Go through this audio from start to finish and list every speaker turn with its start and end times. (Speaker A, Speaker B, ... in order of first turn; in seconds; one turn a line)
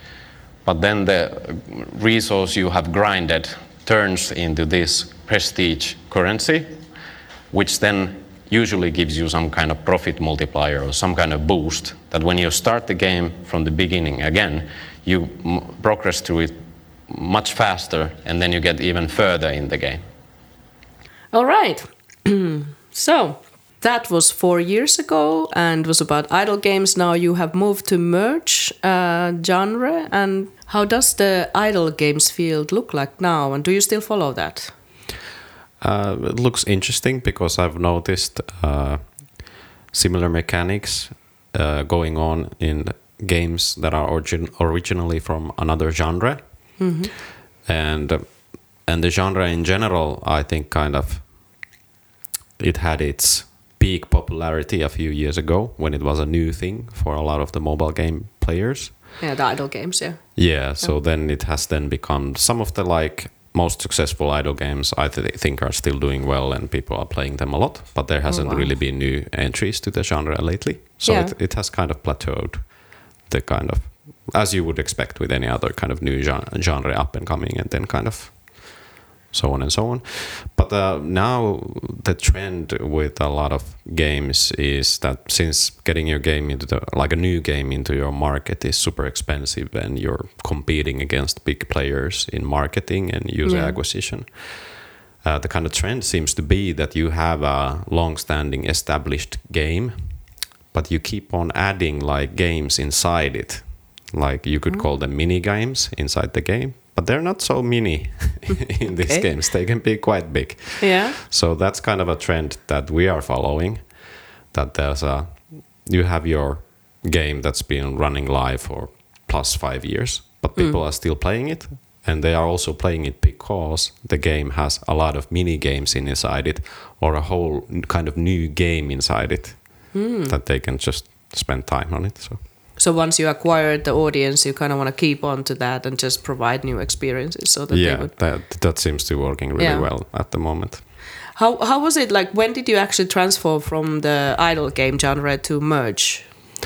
Speaker A: 0.6-6.7
Speaker A: 7.5-16.6
Speaker A: 17.1-20.0
Speaker B: 21.3-34.7
Speaker A: 35.8-46.8
Speaker B: 46.8-47.1
Speaker A: 47.6-51.3
Speaker A: 52.6-59.0
Speaker B: 59.2-60.9
Speaker A: 60.3-113.9
Speaker B: 68.3-68.7
Speaker B: 71.0-71.3
Speaker B: 93.4-93.8
Speaker B: 110.8-111.2
Speaker A: 114.5-132.4
Speaker B: 129.9-130.3
Speaker B: 132.8-138.1
Speaker A: 137.7-140.8
Speaker B: 139.6-139.9
Speaker B: 141.3-146.3